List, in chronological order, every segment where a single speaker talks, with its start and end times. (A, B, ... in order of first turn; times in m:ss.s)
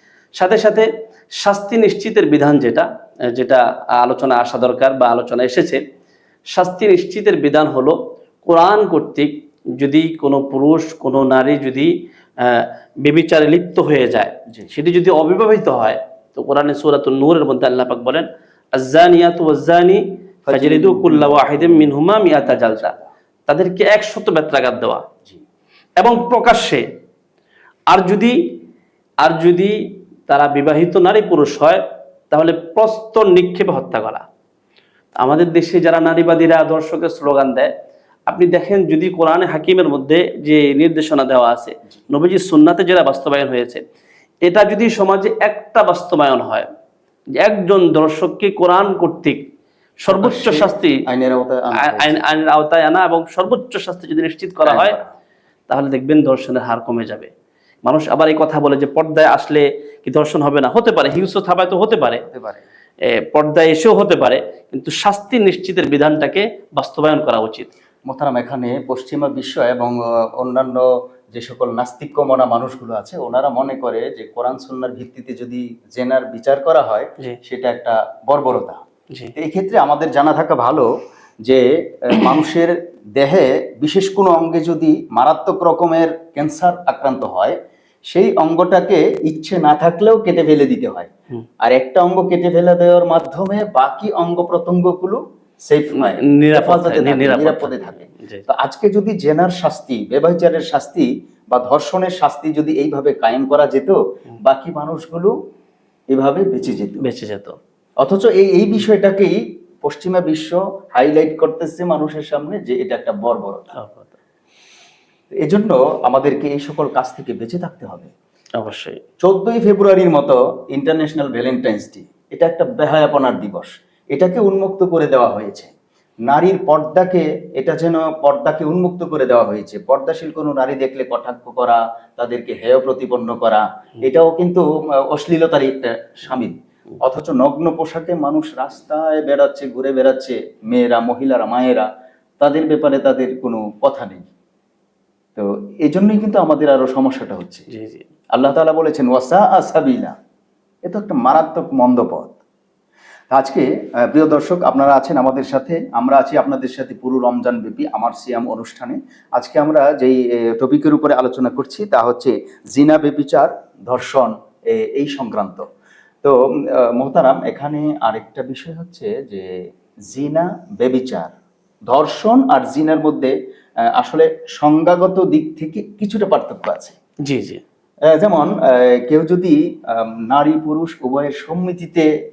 0:00.4-0:00.9 A
0:01.4-0:05.8 A
0:06.5-0:22.9 A
0:20.4-0:23.1 B
0:23.5-0:25.0 A
0:26.0-0:26.8 A
0:27.9-0:28.4 A
0:29.2-0:29.8 A
0:30.3-0:34.2 A
0:35.2-0:37.7 A
0:38.3-0:43.8 A
0:44.4-0:46.7 A
0:47.4-0:49.4 A
0:50.0-0:51.0 A
0:50.1-0:52.2 B
0:51.8-0:55.0 A
0:54.6-0:55.1 B
0:55.7-0:57.3 A
0:57.8-1:02.2 A
1:02.2-1:02.6 B
1:03.0-1:07.7 A
1:08.0-1:18.8 B
1:19.3-1:20.9 B
1:21.4-1:27.6 B
1:28.1-1:31.1 B
1:31.6-1:45.3 B
1:36.0-1:38.4 A
1:46.1-1:47.0 B
1:47.0-1:47.6 A
1:48.0-1:53.7 B
1:53.8-1:54.2 A
1:55.4-1:58.1 B
1:58.6-1:59.0 A
1:59.2-2:05.7 B
2:06.3-2:21.9 B
2:22.4-2:24.2 B
2:25.4-2:27.7 B
2:27.7-2:28.0 A
2:28.3-2:30.1 B
2:30.8-2:32.4 B
2:33.3-2:45.6 B
2:46.2-2:49.5 B
2:50.1-2:51.3 B
2:51.9-2:53.3 B
2:53.9-2:56.9 B
2:57.2-2:57.6 A
2:58.1-3:02.1 B